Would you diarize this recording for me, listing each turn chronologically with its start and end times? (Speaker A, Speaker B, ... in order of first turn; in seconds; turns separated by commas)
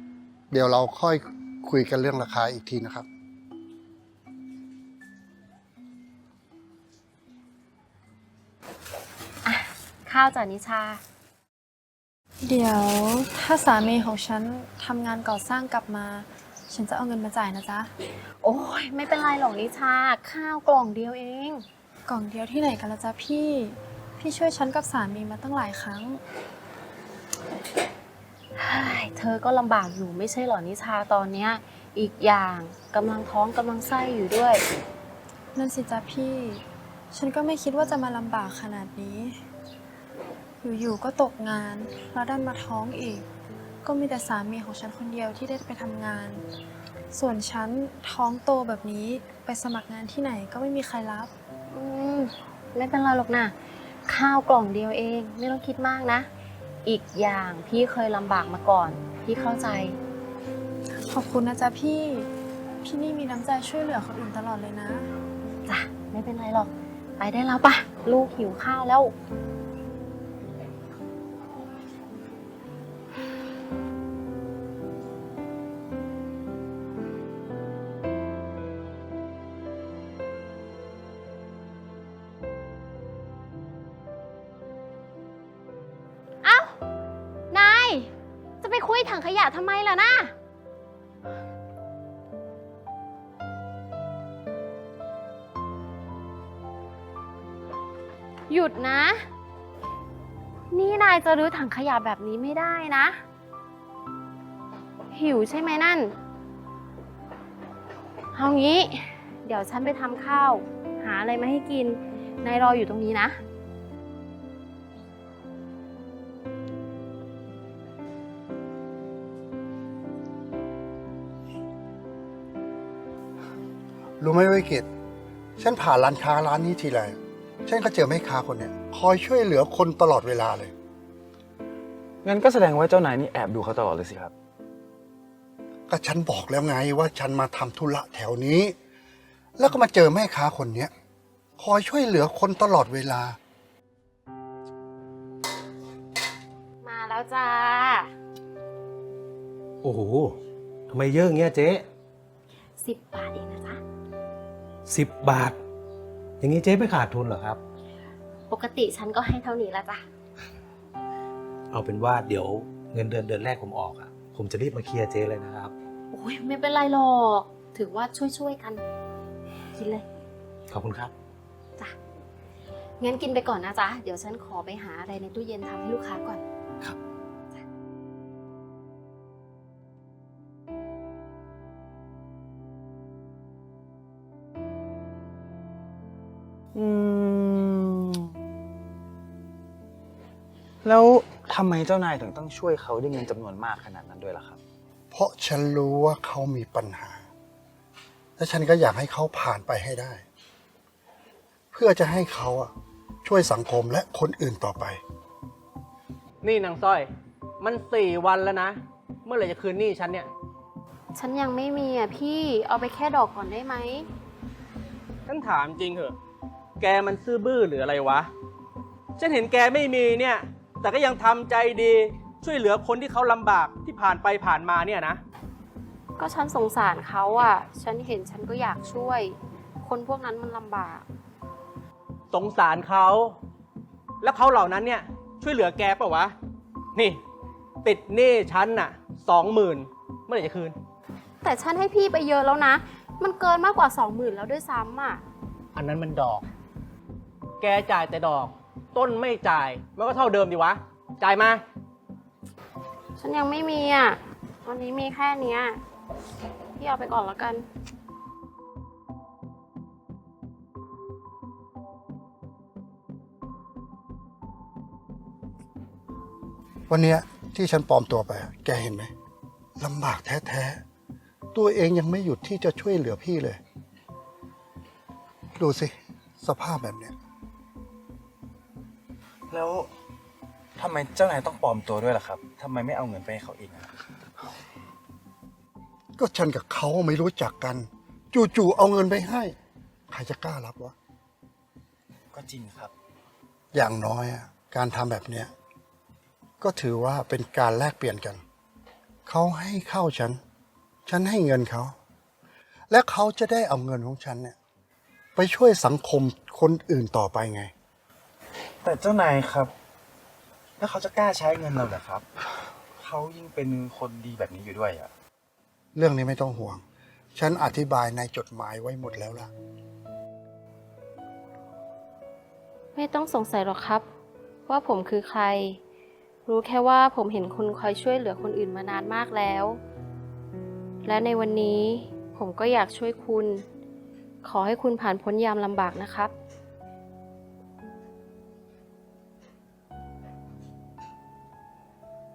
Speaker A: 0.5-3.1, Speaker B: 9.4-11.0, Speaker C: 12.4-17.9, Speaker B: 18.4-21.7, Speaker C: 22.1-26.2, Speaker B: 28.6-34.6, Speaker C: 35.5-39.4, Speaker C: 40.6-43.3, Speaker C: 43.8-46.5, Speaker C: 47.1-51.3, Speaker B: 51.7-53.5, Speaker B: 54.1-56.3, Speaker B: 56.9-60.0, Speaker C: 61.0-62.3, Speaker C: 62.8-65.1, Speaker B: 65.7-69.1, Speaker B: 86.4-86.8, Speaker B: 87.5-90.3, Speaker B: 98.5-99.3, Speaker B: 100.7-103.2, Speaker B: 105.1-106.2, Speaker B: 108.3-113.4, Speaker A: 124.2-124.9, Speaker A: 125.6-130.7, Speaker D: 132.2-134.3, Speaker A: 135.9-138.8, Speaker A: 139.6-140.9, Speaker A: 141.6-143.4, Speaker B: 146.8-148.1, Speaker E: 149.8-150.4, Speaker E: 150.9-151.9, Speaker B: 152.8-153.8, Speaker E: 154.9-155.6, Speaker E: 156.4-157.6, Speaker B: 158.5-160.1, Speaker E: 161.7-165.7, Speaker B: 166.1-168.8, Speaker B: 169.8-170.1, Speaker E: 170.7-171.1, Speaker B: 173.0-176.4, Speaker D: 186.8-188.3, Speaker D: 190.8-194.6, Speaker A: 195.1-197.3, Speaker A: 198.4-200.2, Speaker A: 201.7-202.7, Speaker A: 203.2-205.0, Speaker F: 206.4-210.3, Speaker B: 211.2-214.1, Speaker F: 215.3-216.2, Speaker F: 216.8-218.3, Speaker F: 219.2-225.2, Speaker B: 226.2-231.1, Speaker F: 232.3-233.4, Speaker F: 234.2-236.3, Speaker F: 236.9-237.2, Speaker F: 237.8-240.8, Speaker B: 241.4-245.2, Speaker F: 245.8-246.5, Speaker F: 247.6-251.6, Speaker B: 253.2-255.8, Speaker B: 256.8-257.7, Speaker A: 266.9-269.1, Speaker A: 269.8-270.8, Speaker A: 271.5-273.6, Speaker A: 275.6-277.1, Speaker D: 279.5-279.9, Speaker D: 280.8-283.9, Speaker A: 286.2-289.6, Speaker A: 290.1-290.9, Speaker D: 292.3-292.9, Speaker A: 293.7-295.5, Speaker A: 296.6-298.4, Speaker A: 299.3-300.4, Speaker A: 301.1-301.9, Speaker A: 302.9-304.6, Speaker A: 305.4-307.7, Speaker D: 308.8-309.7, Speaker D: 310.8-312.3, Speaker D: 312.9-315.1, Speaker A: 315.9-316.8, Speaker A: 317.4-319.5, Speaker B: 322.9-324.1, Speaker B: 324.7-325.8, Speaker B: 326.5-329.8, Speaker B: 331.1-333.6, Speaker B: 334.4-336.3